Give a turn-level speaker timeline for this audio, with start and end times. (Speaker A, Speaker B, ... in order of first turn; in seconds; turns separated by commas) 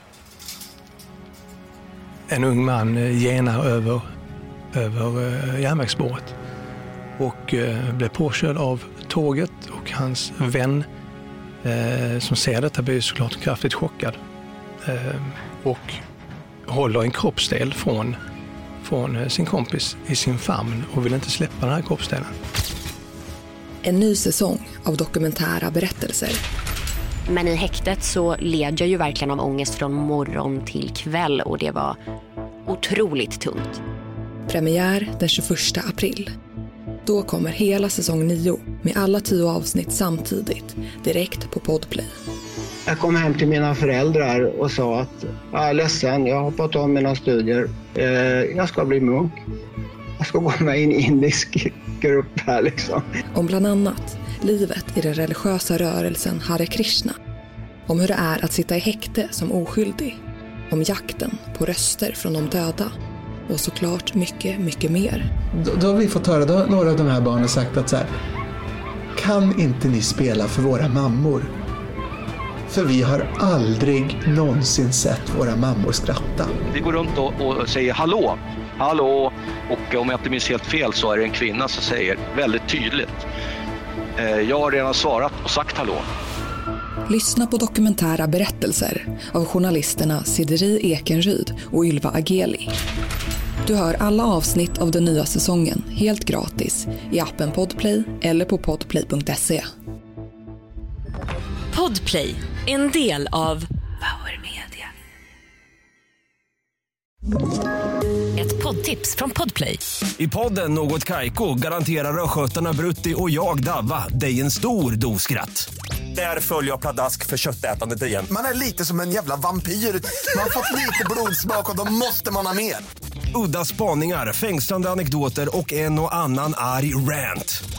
Speaker A: 2.3-4.0, Speaker A: 4.7-6.3, Speaker A: 7.2-10.8, Speaker A: 11.6-14.2, Speaker A: 14.8-16.0, Speaker A: 16.7-18.2, Speaker A: 18.8-22.3, Speaker B: 23.8-26.4, Speaker C: 27.3-32.0, Speaker C: 32.7-33.8, Speaker B: 34.5-36.3, Speaker B: 37.0-42.1, Speaker D: 42.9-49.4, Speaker D: 50.2-53.0, Speaker B: 53.3-57.1, Speaker B: 57.9-60.1, Speaker B: 60.7-62.9, Speaker B: 63.5-65.2, Speaker E: 65.6-68.1, Speaker E: 69.2-71.5, Speaker E: 72.7-76.5, Speaker F: 76.7-83.2, Speaker F: 84.2-86.1, Speaker B: 87.1-92.7, Speaker B: 93.6-99.6, Speaker G: 101.7-103.7, Speaker G: 104.2-104.7, Speaker G: 108.3-109.8, Speaker H: 110.2-118.3, Speaker I: 118.3-122.8, Speaker H: 123.3-127.6